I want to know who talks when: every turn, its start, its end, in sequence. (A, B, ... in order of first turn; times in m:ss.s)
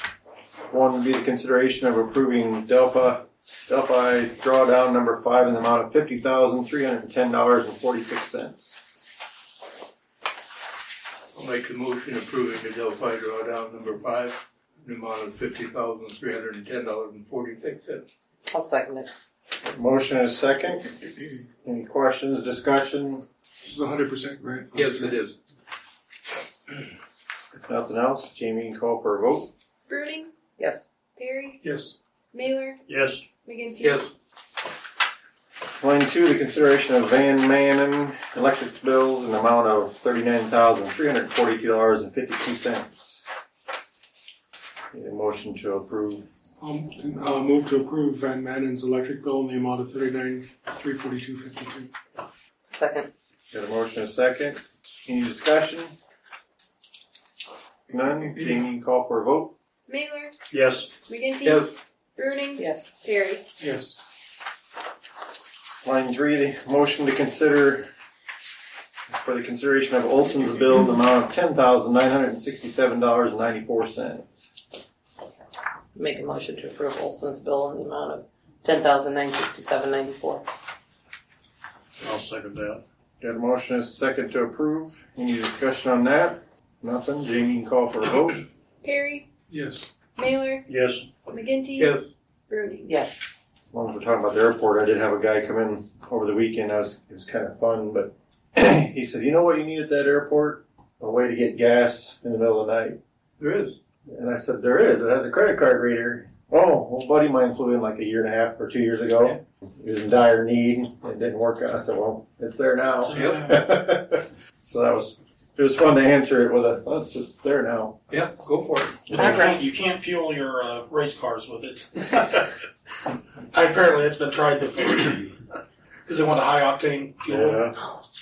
0:00.7-0:08.8 A
0:11.3-0:18.0 B
0:18.5-0:19.1 C
0:19.6-0:21.1 A
0:21.6-0:23.2 A
0:23.6-0:25.2 D
0:24.7-0:25.3 B
0:27.6-0:29.5 A
0:29.9-0:30.3 E
0:30.6-0:30.8 C
0:31.2-0:31.6 E
0:32.3-0:32.8 E
0:32.9-0:33.2 F
0:33.4-0:34.0 E
0:33.8-0:34.1 B
0:35.8-0:43.2 A
0:44.9-0:46.2 A
0:46.6-0:51.9 D
0:52.7-0:53.1 C
0:53.5-0:55.9 A
0:57.9-0:59.5 A
0:59.9-1:00.3 E
1:00.5-1:00.9 F
1:01.0-1:03.4 E
1:01.4-1:01.7 B
1:02.6-1:02.9 C
1:03.6-1:04.0 D
1:05.8-1:07.9 A
1:09.1-1:14.5 A
1:15.9-1:20.4 C
1:22.0-1:22.8 F
1:23.2-1:28.4 A
1:28.8-1:29.3 E
1:29.5-1:29.9 D
1:30.2-1:30.6 E
1:30.7-1:31.1 F
1:31.2-1:32.9 E
1:31.8-1:32.0 B
1:32.8-1:33.2 C
1:33.7-1:43.0 A
1:43.4-1:43.8 B
1:44.1-1:58.0 A
1:53.0-1:53.7 G
1:53.2-1:53.5 B
1:58.1-1:59.1 B
1:59.1-2:02.5 G
1:59.2-1:59.6 C
2:03.5-2:05.4 G
2:06.0-2:07.6 G
2:07.3-2:07.8 A